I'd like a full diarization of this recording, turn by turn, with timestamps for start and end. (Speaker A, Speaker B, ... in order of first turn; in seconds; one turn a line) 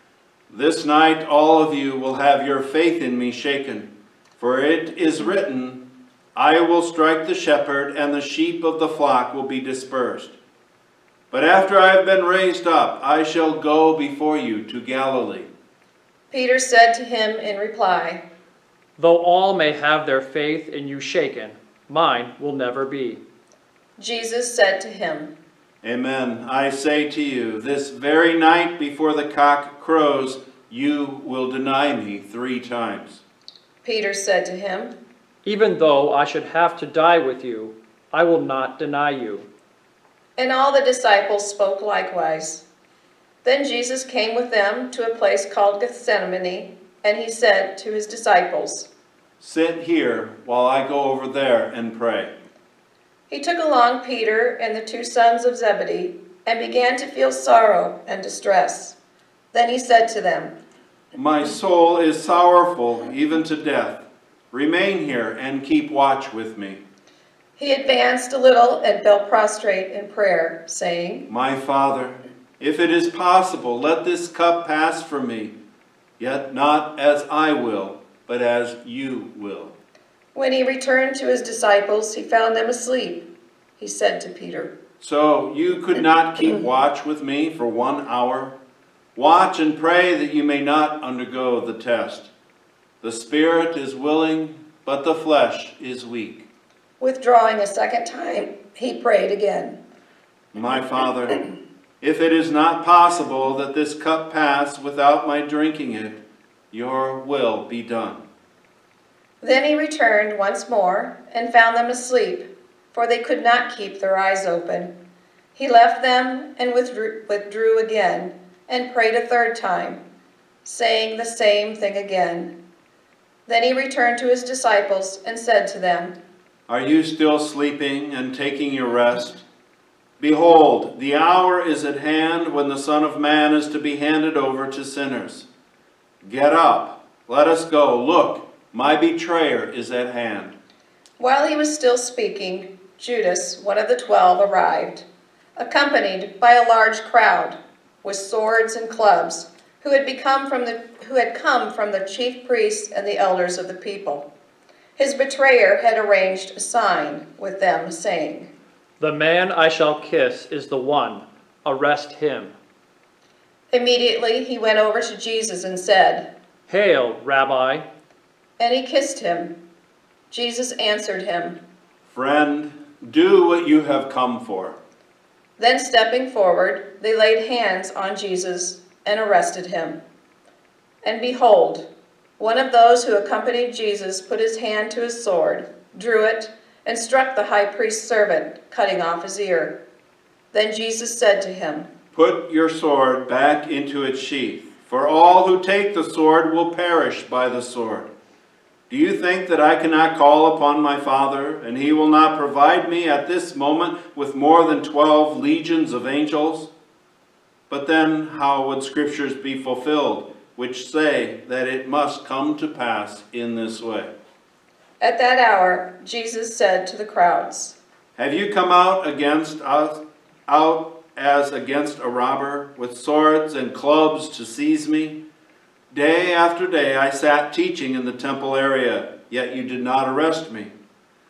Speaker A: 0.5-10.3
Speaker A: 11.3-15.5
Speaker B: 16.3-18.2
Speaker C: 19.0-23.2
Speaker B: 24.0-25.3
Speaker A: 25.8-33.2
Speaker B: 33.8-34.9
Speaker C: 35.4-39.5
Speaker B: 40.4-42.6
Speaker B: 43.4-48.9
Speaker A: 49.4-52.3
Speaker B: 53.3-59.0
Speaker B: 59.5-60.5
Speaker A: 61.1-66.8
Speaker B: 67.6-71.3
Speaker A: 71.3-75.6
Speaker A: 76.2-79.8
Speaker B: 80.3-83.3
Speaker B: 83.8-84.7
Speaker A: 85.0-88.5
Speaker A: 89.1-92.3
Speaker A: 93.0-96.5
Speaker B: 97.0-99.8
Speaker A: 100.5-101.5
Speaker A: 102.0-108.2
Speaker B: 109.4-114.9
Speaker B: 115.5-120.0
Speaker B: 120.6-122.5
Speaker B: 123.5-126.1
Speaker A: 126.7-129.4
Speaker A: 130.2-135.5
Speaker A: 136.2-140.6
Speaker B: 141.2-145.1
Speaker B: 145.6-154.3
Speaker B: 155.0-158.5
Speaker C: 159.0-162.6
Speaker B: 163.7-166.3
Speaker C: 166.7-167.9
Speaker B: 168.6-169.6
Speaker B: 170.3-171.6
Speaker A: 172.1-174.8
Speaker B: 175.6-180.0
Speaker B: 181.1-181.9
Speaker B: 182.4-189.8
Speaker B: 190.5-191.9
Speaker A: 192.1-198.1
Speaker A: 198.9-206.7
Speaker A: 207.7-214.1
Speaker B: 215.0-217.8
Speaker A: 218.2-225.2
Speaker A: 225.9-230.7